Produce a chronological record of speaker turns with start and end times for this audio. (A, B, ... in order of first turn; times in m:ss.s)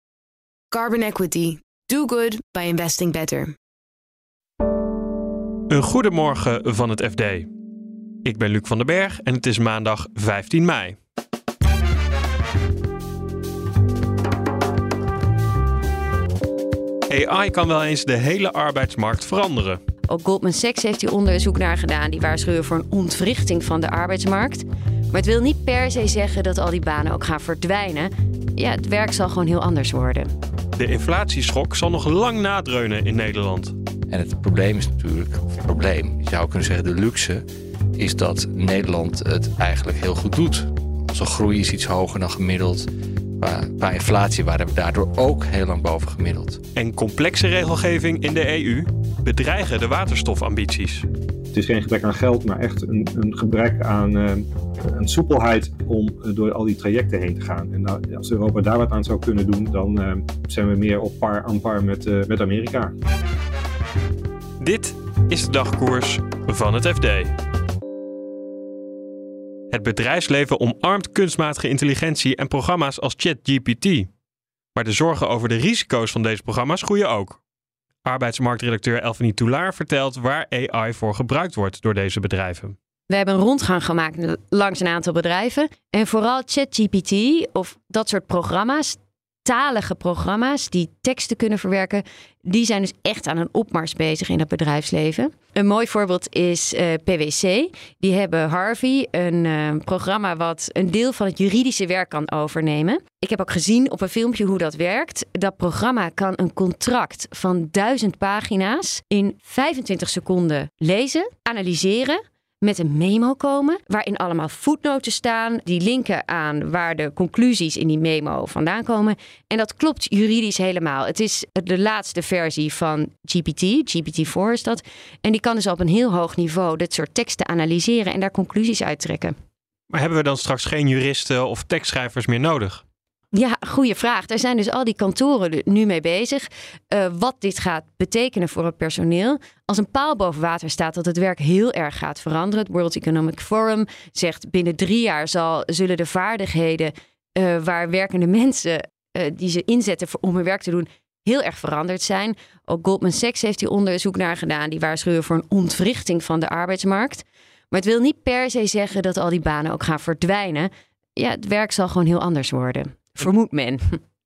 0:00.7-0:03.5 A
0:05.7-0:07.5 B
0:08.2-0:11.0 B
0:17.1-0:19.8 B
0:20.1-0:30.3 C
0:30.8-0:33.7 B
0:34.1-0:37.4 D
0:38.0-0:42.9 D
0:43.4-0:46.6 D
0:46.7-0:51.1 B
0:51.5-1:02.9 E
1:04.6-1:07.3 B
1:09.7-1:14.1 B
1:14.7-1:17.4 B
1:18.0-1:22.7 B
1:23.1-2:09.3 C
2:09.9-2:12.8 B
2:13.3-2:44.0 C